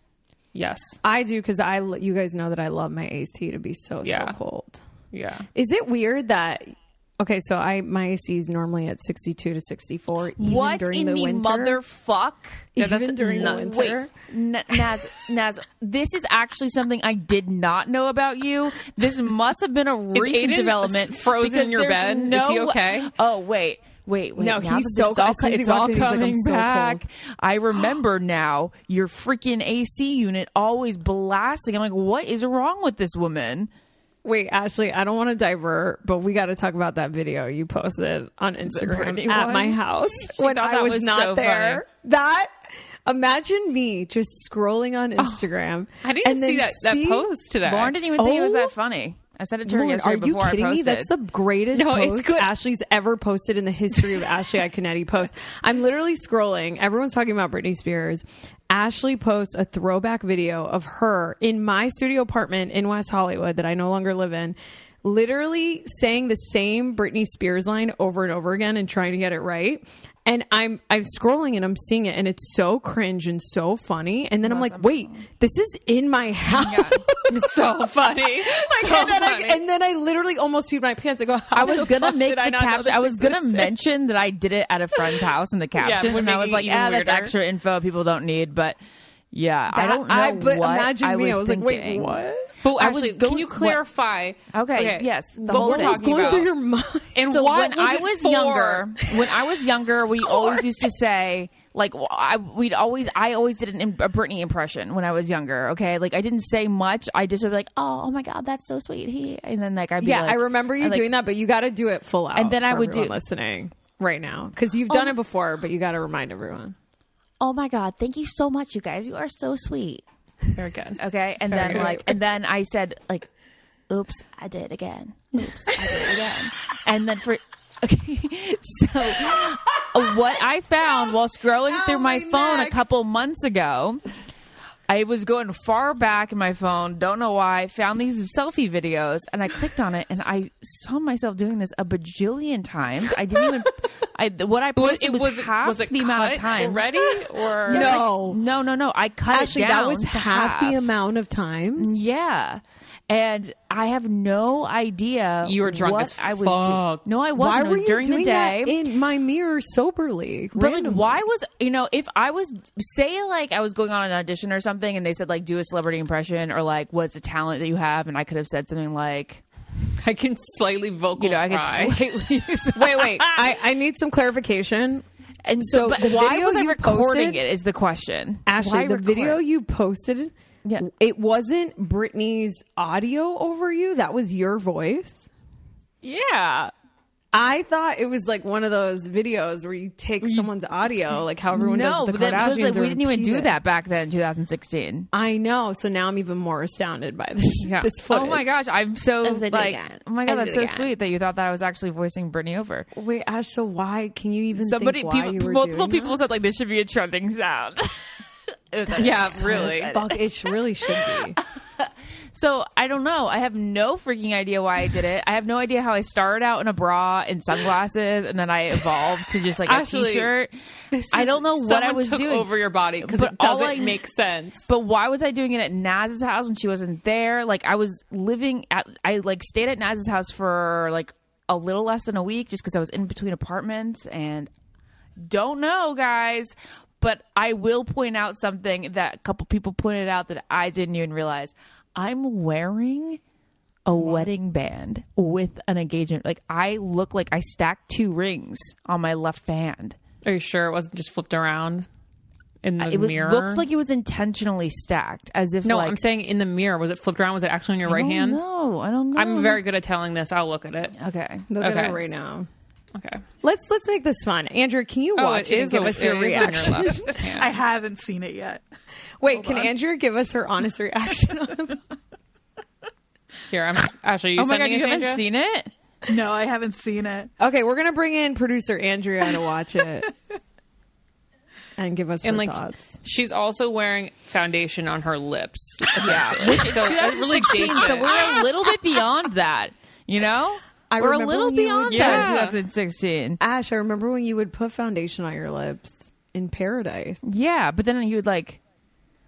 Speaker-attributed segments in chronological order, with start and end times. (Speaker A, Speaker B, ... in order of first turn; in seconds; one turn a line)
Speaker A: 0.5-1.0
Speaker B: 1.0-4.8
Speaker A: 4.0-4.3
Speaker A: 5.1-5.5
Speaker B: 5.5-11.8
Speaker C: 10.4-33.7
Speaker B: 12.8-14.1
Speaker A: 12.8-13.9
Speaker A: 20.1-23.1
Speaker B: 24.4-27.0
Speaker B: 34.2-42.5
Speaker C: 38.6-41.8
Speaker B: 43.0-47.2
Speaker A: 45.2-48.0
Speaker C: 47.6-51.1
Speaker B: 48.1-48.7
Speaker B: 49.6-77.3
Speaker A: 51.7-52.5
Speaker A: 54.0-54.3
Speaker C: 74.4-75.2
Speaker C: 76.5-77.0
Speaker A: 77.3-79.6
Speaker B: 78.4-83.7
Speaker C: 81.5-88.8
Speaker A: 85.8-87.3
Speaker C: 89.3-92.2
Speaker B: 89.7-92.6
Speaker A: 92.6-96.5
Speaker C: 92.7-93.8
Speaker C: 94.5-96.5
Speaker B: 95.5-97.2
Speaker A: 97.1-99.0
Speaker C: 97.2-111.1
Speaker B: 100.3-100.6
Speaker B: 110.0-116.8
Speaker C: 112.3-113.2
Speaker C: 114.9-115.2
Speaker C: 117.4-120.0
Speaker A: 120.5-122.0
Speaker C: 121.0-123.3
Speaker C: 123.9-134.0
Speaker B: 131.7-132.8
Speaker C: 134.9-147.1
Speaker A: 144.8-148.0
Speaker C: 147.7-150.9
Speaker B: 147.7-148.4
Speaker B: 149.3-152.0
Speaker C: 151.8-158.8
Speaker A: 155.4-157.1
Speaker B: 157.3-161.2
Speaker C: 160.5-169.4
Speaker A: 170.0-172.0
Speaker C: 171.2-173.5
Speaker B: 172.7-175.0
Speaker C: 175.4-179.4
Speaker B: 175.6-177.4
Speaker B: 178.4-185.3
Speaker C: 186.0-186.7
Speaker B: 187.3-193.5
Speaker C: 190.2-190.5
Speaker C: 191.5-195.1
Speaker B: 195.1-198.6
Speaker A: 197.6-197.9
Speaker C: 198.1-202.9
Speaker A: 199.2-200.9
Speaker B: 202.9-206.2
Speaker C: 204.5-208.0
Speaker C: 208.7-210.2
Speaker B: 208.9-211.4
Speaker A: 209.0-209.9
Speaker C: 210.8-220.5
Speaker A: 219.6-220.3
Speaker A: 220.9-224.7
Speaker C: 221.1-224.0
Speaker C: 224.7-234.5
Speaker C: 235.2-243.2
Speaker C: 243.8-250.0
Speaker A: 250.2-251.9
Speaker A: 252.6-253.6
Speaker C: 252.8-256.0
Speaker A: 255.6-258.4
Speaker C: 257.8-259.6
Speaker A: 259.1-260.9
Speaker C: 261.0-261.5
Speaker B: 261.5-262.5
Speaker A: 261.6-262.1
Speaker A: 262.9-263.2
Speaker B: 263.4-267.1
Speaker A: 265.1-267.6
Speaker D: 267.3-268.6
Speaker B: 269.2-271.8
Speaker D: 269.3-269.7
Speaker A: 273.5-275.2
Speaker C: 274.4-275.7
Speaker D: 276.1-277.3
Speaker B: 277.4-280.1
Speaker B: 281.8-282.9
Speaker A: 282.2-288.3
Speaker C: 286.0-293.4
Speaker B: 290.9-292.4
Speaker A: 291.9-292.6
Speaker B: 293.4-297.2
Speaker C: 297.2-298.6